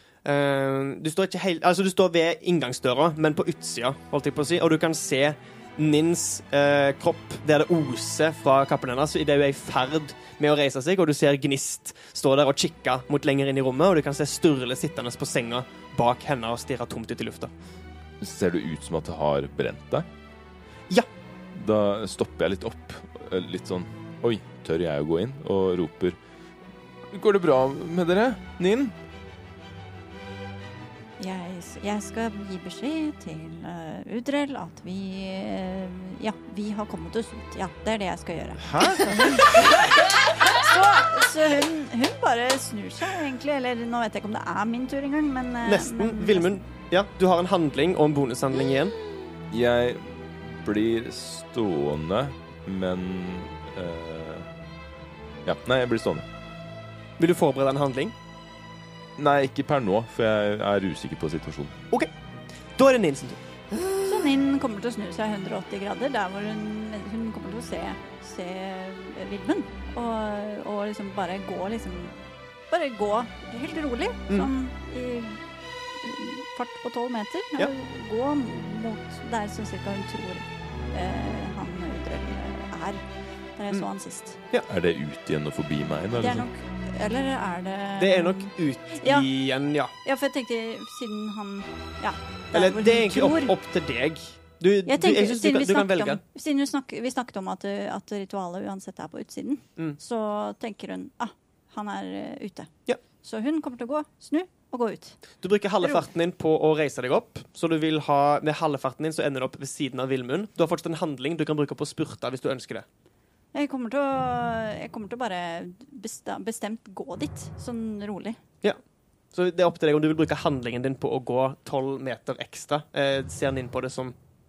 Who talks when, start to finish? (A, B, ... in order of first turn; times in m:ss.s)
0:00.2-0:17.5 A
0:18.2-0:20.0 B
0:21.5-0:26.2 B
0:27.1-0:28.9 B
0:31.2-0:46.6 C
0:38.8-0:39.1 B
0:38.8-0:39.1 A
0:45.6-0:49.0 A
0:49.5-0:54.5 B
0:55.4-0:56.2 B
0:57.2-0:58.1 A
0:59.2-1:01.7 B
1:02.8-1:03.4 A
1:04.0-1:12.1 C
1:12.7-1:15.4 C
1:16.0-1:23.0 C
1:23.6-1:24.4 C
1:24.7-1:26.4 B
1:26.2-1:29.3 C
1:28.0-1:29.9 A
1:30.0-1:33.5 C
1:32.5-1:36.2 A
1:34.8-1:42.7 C
1:43.2-1:45.2 C
1:45.4-1:52.8 A
1:45.8-1:46.1 C
1:53.5-1:58.4 C
1:59.3-2:04.1 A